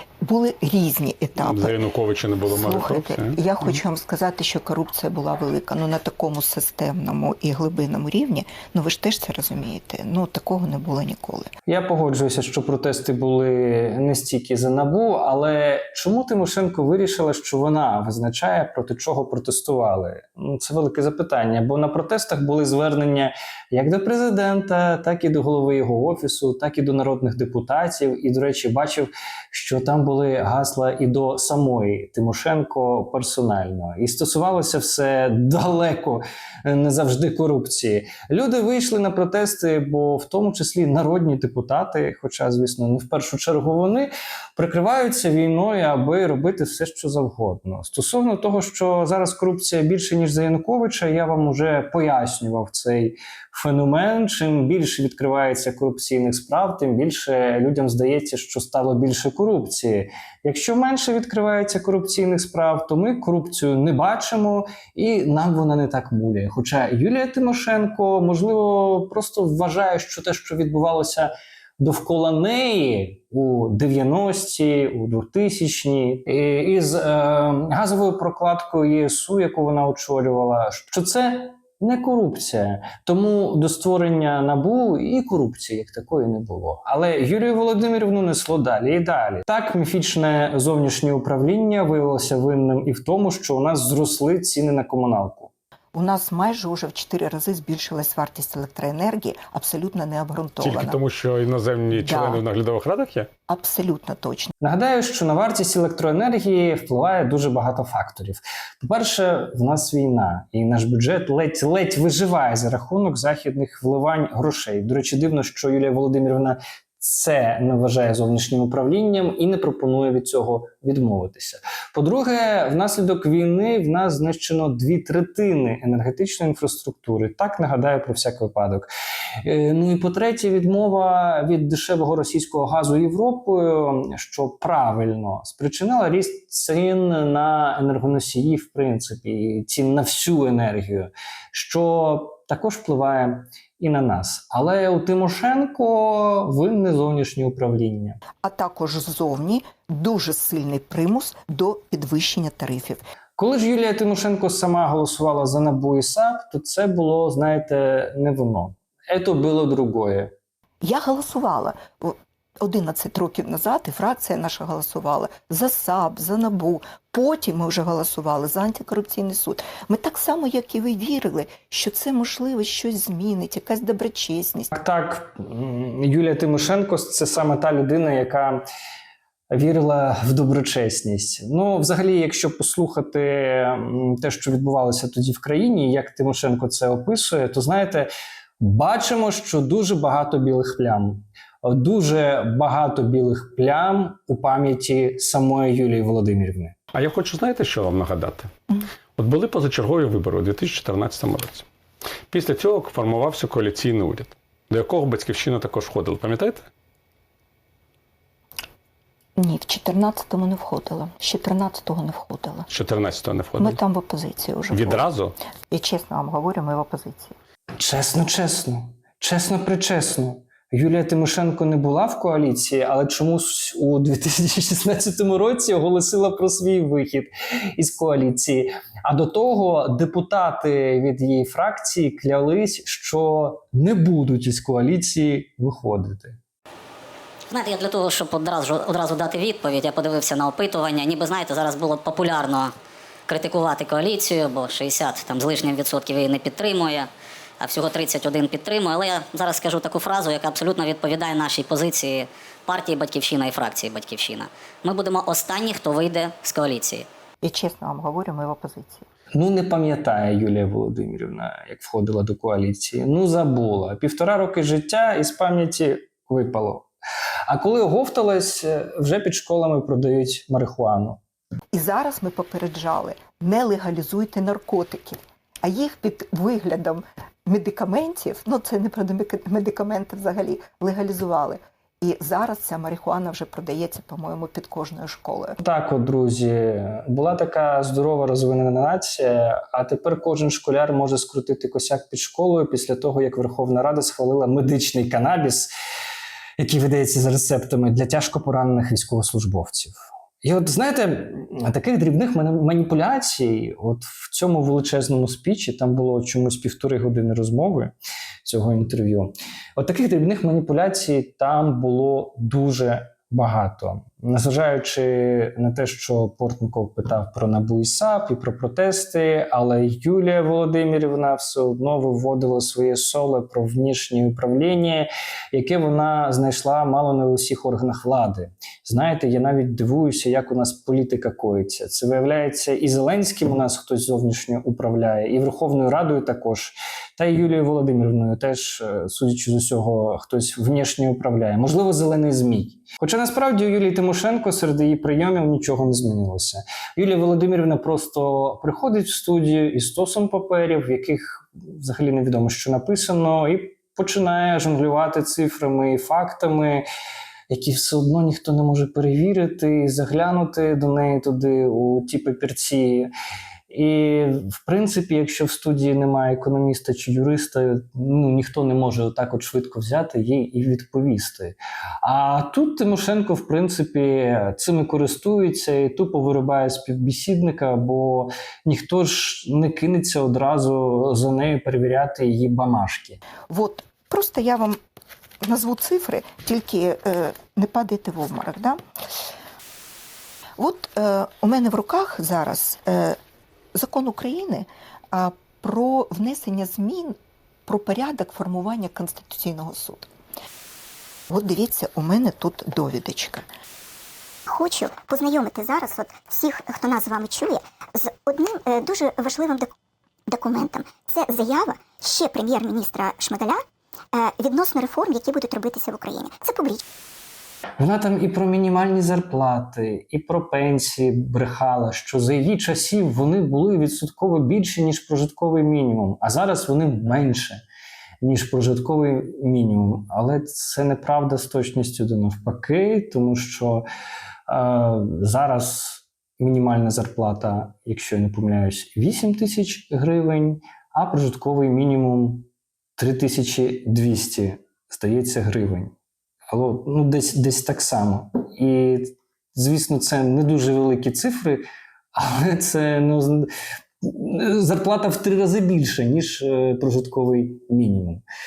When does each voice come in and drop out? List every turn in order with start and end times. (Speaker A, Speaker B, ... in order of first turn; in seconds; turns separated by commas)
Speaker A: 0.2-1.8, Speaker B: 1.4-3.4, Speaker A: 2.5-11.5, Speaker C: 11.7-95.5, Speaker A: 95.9-101.0, Speaker B: 100.6-103.3, Speaker A: 101.9-102.4, Speaker A: 103.5-104.5, Speaker C: 104.6-128.9, Speaker C: 129.4-148.2, Speaker A: 148.4-153.0, Speaker C: 153.4-160.3, Speaker A: 160.8-174.7, Speaker C: 174.7-178.6, Speaker C: 179.5-188.1, Speaker C: 188.6-196.7, Speaker B: 196.9-198.5, Speaker B: 199.2-201.7, Speaker B: 202.3-206.7, Speaker A: 209.4-212.7, Speaker B: 212.7-213.8, Speaker A: 213.6-215.1, Speaker B: 214.7-215.3, Speaker A: 215.7-217.3, Speaker C: 217.8-236.4, Speaker D: 237.5-242.7, Speaker D: 243.3-247.1, Speaker D: 247.6-257.0, Speaker A: 257.4-259.1, Speaker C: 259.3-266.9, Speaker C: 267.5-271.2, Speaker A: 271.7-285.6, Speaker C: 285.6-295.7, Speaker C: 296.6-307.9, Speaker C: 308.4-356.9, Speaker C: 357.5-363.1, Speaker C: 363.7-383.2, Speaker A: 383.5-384.8, Speaker A: 385.4-388.8, Speaker A: 390.6-393.2, Speaker A: 393.7-400.1, Speaker A: 401.3-403.4, Speaker E: 404.5-409.7, Speaker E: 410.3-416.8, Speaker C: 417.8-427.6, Speaker C: 428.2-433.8, Speaker C: 434.5-445.9, Speaker C: 446.5-453.5, Speaker C: 454.0-458.2